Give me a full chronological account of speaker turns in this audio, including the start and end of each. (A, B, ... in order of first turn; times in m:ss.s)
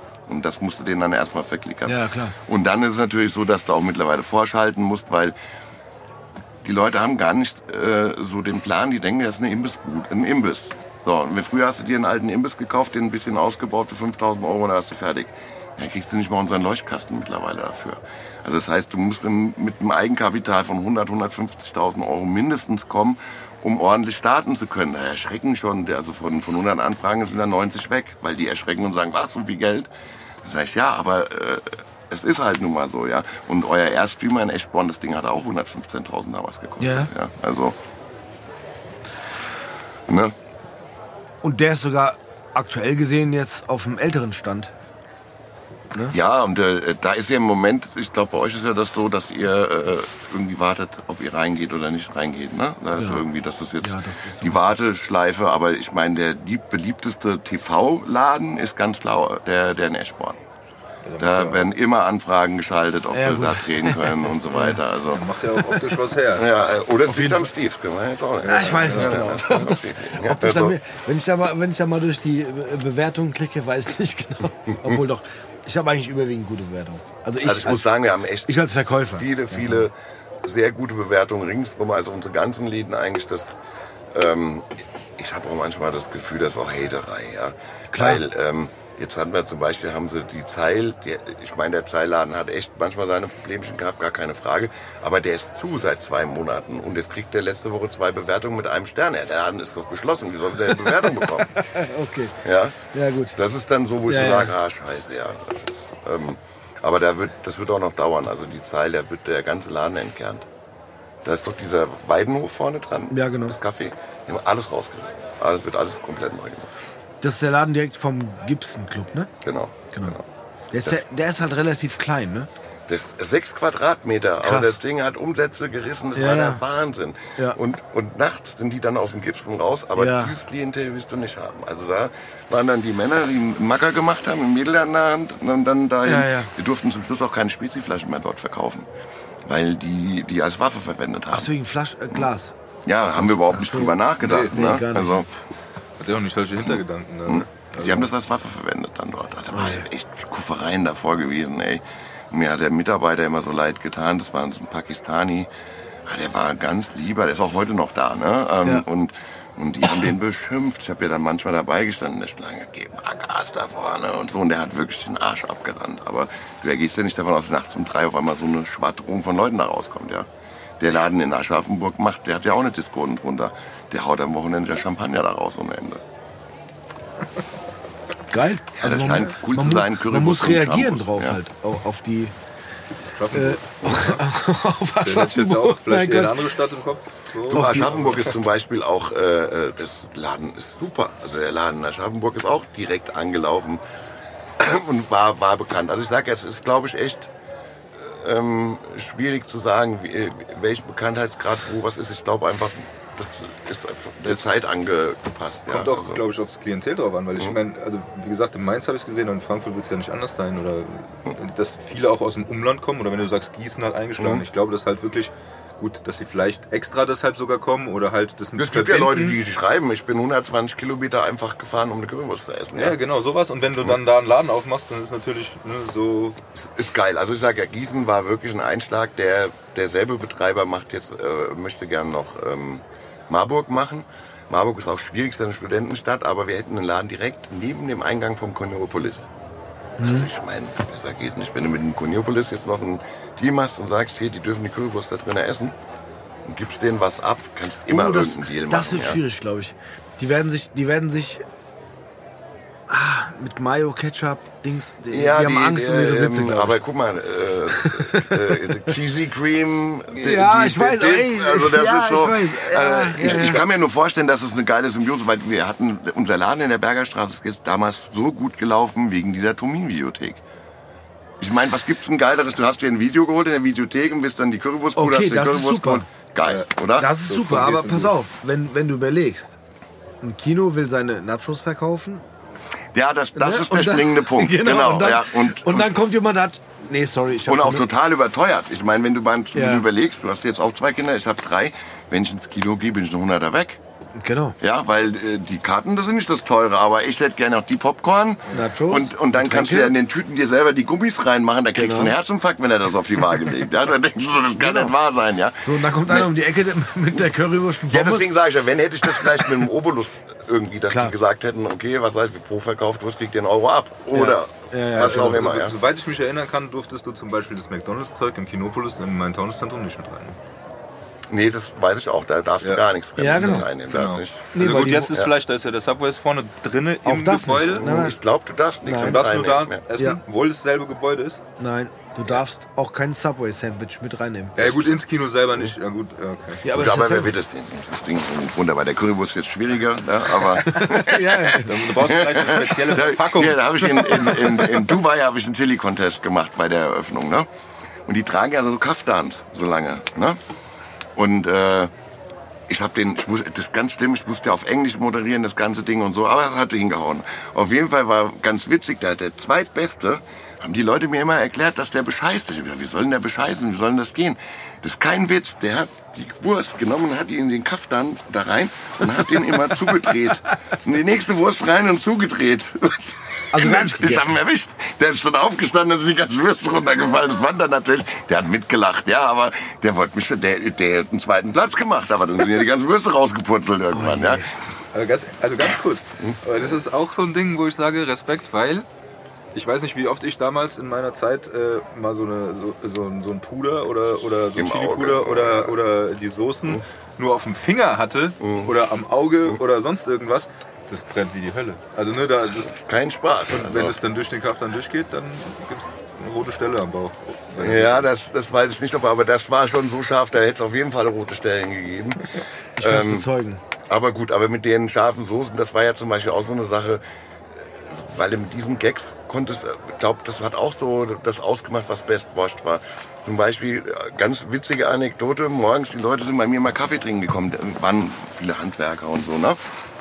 0:00.3-0:05.3 A
0:01.8-0:02.3 B
0:06.6-0:29.9 A
0:30.4-0:37.8 A
0:36.8-0:37.1 B
0:40.1-0:40.3 A
0:41.4-0:44.7 B
0:46.1-1:00.4 A
0:53.0-0:53.2 B
0:53.8-0:54.7 B
1:01.0-1:01.7 C
1:01.2-1:05.2 A
1:03.1-1:04.8 B
1:05.1-1:06.4 C
1:06.3-1:10.8 A
1:07.1-1:07.5 B
1:08.4-1:09.3 C
1:08.4-1:19.3 B
1:17.4-1:23.6 A
1:24.1-1:41.6 A
1:27.9-1:28.2 B
1:41.2-1:42.4 B
1:42.4-1:42.8 A
1:42.9-1:43.4 B
1:43.3-1:50.5 A
1:44.1-1:44.5 B
1:51.2-1:56.7 A
1:53.1-1:53.6 B
1:57.2-1:59.3 B
1:59.4-2:00.2 A
1:59.9-2:00.2 B
2:00.7-2:02.5 B
2:02.9-2:18.9 A
2:04.4-2:04.8 B
2:06.1-2:06.6 B
2:10.0-2:10.3 B
2:16.0-2:16.5 B
2:19.4-2:21.5 A
2:21.3-2:22.5 B
2:22.8-2:25.3 A
2:23.2-2:25.2 B
2:24.2-2:24.6 C
2:26.0-2:28.1 C
2:26.6-2:35.5 A
2:29.5-2:29.8 B
2:36.0-2:50.3 A
2:50.8-2:56.0 A
2:58.3-3:02.3 B
2:58.8-3:01.4 A
3:03.1-3:04.2 C
3:03.3-3:06.4 B
3:05.0-3:08.4 C
3:07.5-3:07.9 B
3:07.5-3:13.8 A
3:14.6-3:17.3 A
3:17.9-3:26.2 A
3:25.7-3:39.4 C
3:34.2-3:34.4 A
3:38.6-3:43.0 A
3:42.7-3:46.4 C
3:46.5-3:59.3 A
4:00.0-4:00.3 B
4:00.0-4:05.8 A
4:06.4-4:09.2 A
4:07.9-4:11.4 B
4:12.9-4:16.8 B
4:15.1-4:30.4 A
4:17.7-4:18.6 B
4:20.2-4:23.6 B
4:31.4-4:37.2 A
4:35.0-4:36.0 B
4:36.4-4:38.1 C
4:37.0-4:39.6 B
4:40.2-4:42.2 B
4:42.9-4:46.0 A
4:43.3-4:47.8 B
4:47.4-4:53.8 A
4:49.5-4:49.8 B
4:54.2-4:54.6 B
4:54.6-5:06.3 A
4:58.5-4:59.9 B
5:01.7-5:02.1 B
5:04.6-5:04.9 B
5:05.6-5:08.3 B
5:07.9-5:15.7 A
5:09.2-5:09.4 B
5:10.9-5:11.1 B
5:14.1-5:15.4 B
5:15.1-5:20.4 C
5:21.3-5:25.3 A
5:23.2-5:23.7 B
5:23.9-5:27.8 C
5:24.5-5:25.2 B
5:27.0-5:28.2 B
5:27.7-5:29.8 A
5:28.8-5:29.2 B
5:29.0-5:31.4 C
5:31.6-5:34.9 B
5:34.6-5:36.6 C
5:36.6-5:37.3 B
5:36.7-5:47.5 A
5:40.6-5:41.8 B
5:41.6-5:44.6 C
5:48.0-5:50.4 A
5:51.2-5:51.9 A
5:52.7-6:24.5 A
6:13.5-6:14.4 B
6:23.9-6:24.4 B
6:24.9-6:28.8 C
6:26.2-6:26.7 A
6:29.5-6:42.7 C
6:34.5-6:35.8 A
6:38.4-6:38.7 A
6:42.4-6:44.0 A
6:43.5-6:48.1 C
6:47.6-6:53.3 A
6:52.8-6:53.6 B
6:53.8-7:09.6 A